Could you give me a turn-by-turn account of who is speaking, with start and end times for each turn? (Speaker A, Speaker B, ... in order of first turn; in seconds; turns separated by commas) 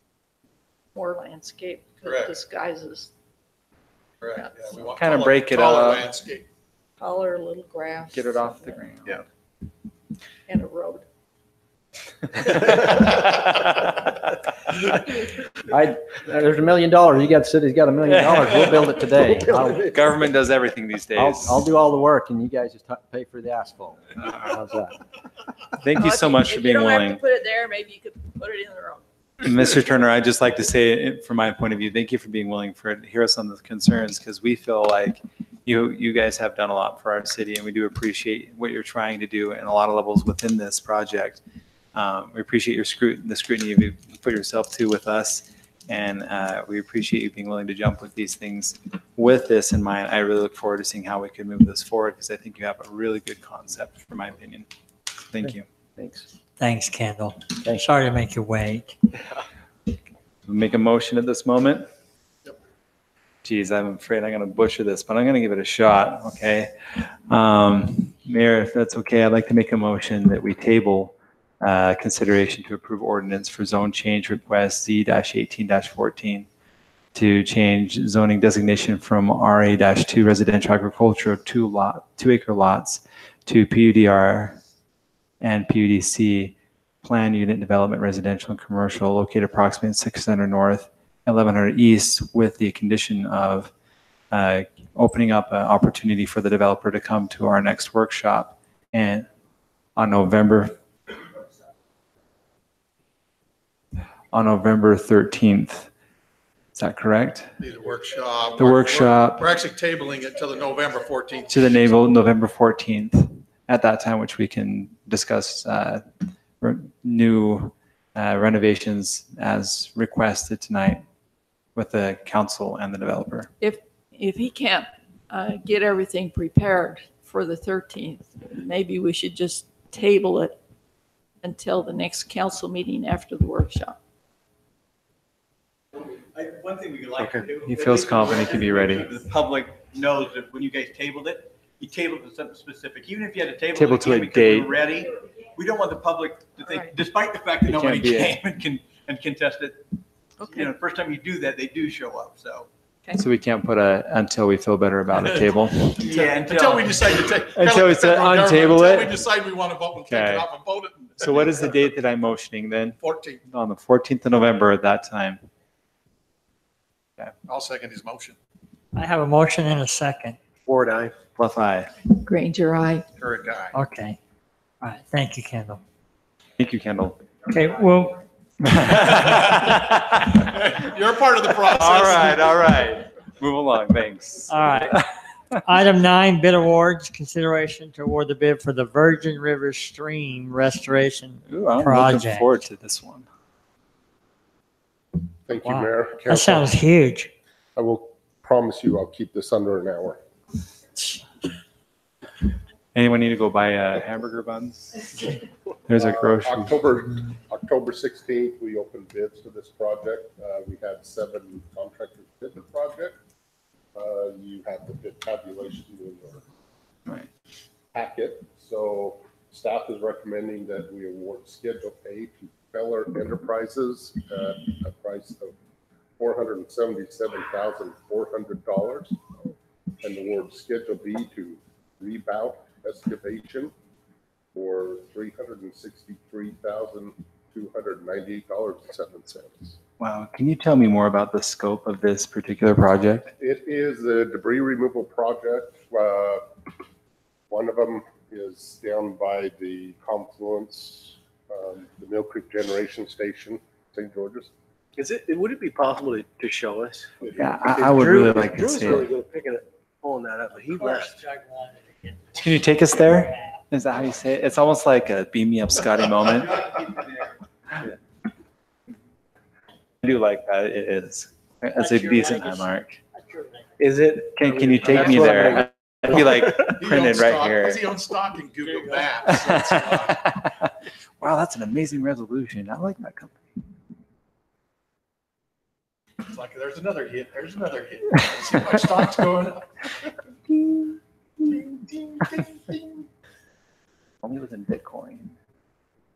Speaker A: 0.9-3.1, Speaker B: 2.0-2.3, Speaker B: 4.2-6.5, Speaker C: 5.0-6.1, Speaker A: 7.0-8.8, Speaker C: 8.1-9.2, Speaker A: 10.5-11.0, Speaker C: 12.4-14.1, Speaker D: 15.7-20.3, Speaker C: 18.1-18.9, Speaker C: 19.8-21.6, Speaker D: 21.1-25.0, Speaker C: 25.8-27.2, Speaker A: 25.9-29.0, Speaker C: 29.4-41.4, Speaker C: 42.0-54.7, Speaker C: 55.3-55.6, Speaker D: 55.4-56.3, Speaker E: 56.6-59.0, Speaker D: 57.6-57.9, Speaker C: 60.5-61.8, Speaker C: 63.4-66.7, Speaker C: 67.3-76.5, Speaker C: 77.1-84.6, Speaker C: 85.4-93.7, Speaker C: 94.3-99.3, Speaker C: 100.0-100.8, Speaker C: 104.3-105.9, Speaker C: 106.8-107.6, Speaker B: 107.6-111.9, Speaker C: 108.6-109.5, Speaker C: 111.5-116.0, Speaker C: 116.6-121.0, Speaker C: 121.8-123.5, Speaker A: 123.6-130.6, Speaker A: 131.4-133.9, Speaker F: 136.3-149.8, Speaker C: 137.4-139.1, Speaker C: 143.7-144.7, Speaker A: 146.6-146.9, Speaker C: 147.7-148.4, Speaker A: 150.4-150.7, Speaker F: 150.5-152.7, Speaker C: 153.2-156.2, Speaker F: 156.0-157.3, Speaker B: 156.1-161.7, Speaker C: 157.5-159.2, Speaker C: 160.0-160.5, Speaker C: 161.2-165.4, Speaker B: 163.0-163.4, Speaker B: 167.4-168.3, Speaker E: 168.9-170.4, Speaker G: 170.7-171.1, Speaker C: 171.3-171.9, Speaker A: 172.2-173.0, Speaker B: 173.2-173.8, Speaker E: 173.7-174.2, Speaker E: 174.8-175.8, Speaker C: 176.6-177.3, Speaker E: 177.5-178.2, Speaker C: 178.6-180.9, Speaker B: 180.6-182.7, Speaker C: 181.5-185.0, Speaker E: 184.5-185.0, Speaker E: 185.6-192.6, Speaker C: 191.5-193.3, Speaker H: 195.5-196.7, Speaker E: 195.6-197.3, Speaker H: 197.8-200.2, Speaker C: 202.9-205.3, Speaker C: 205.9-206.8, Speaker H: 205.9-213.2, Speaker H: 213.9-216.4, Speaker H: 217.9-225.5, Speaker H: 226.2-229.2, Speaker H: 230.0-233.7, Speaker H: 234.5-239.8, Speaker C: 240.0-243.3, Speaker H: 243.4-246.4, Speaker H: 247.5-254.5, Speaker G: 255.0-257.1, Speaker C: 257.4-259.1, Speaker G: 257.8-261.1, Speaker E: 260.5-263.6, Speaker C: 262.4-266.6, Speaker F: 266.6-267.0, Speaker C: 270.0-273.0, Speaker E: 271.8-273.7, Speaker D: 273.8-276.7, Speaker C: 274.3-277.8, Speaker B: 276.6-280.2, Speaker E: 278.6-279.1, Speaker C: 279.2-280.6, Speaker C: 281.2-283.4, Speaker B: 286.2-289.6, Speaker B: 291.4-293.0, Speaker C: 294.2-295.3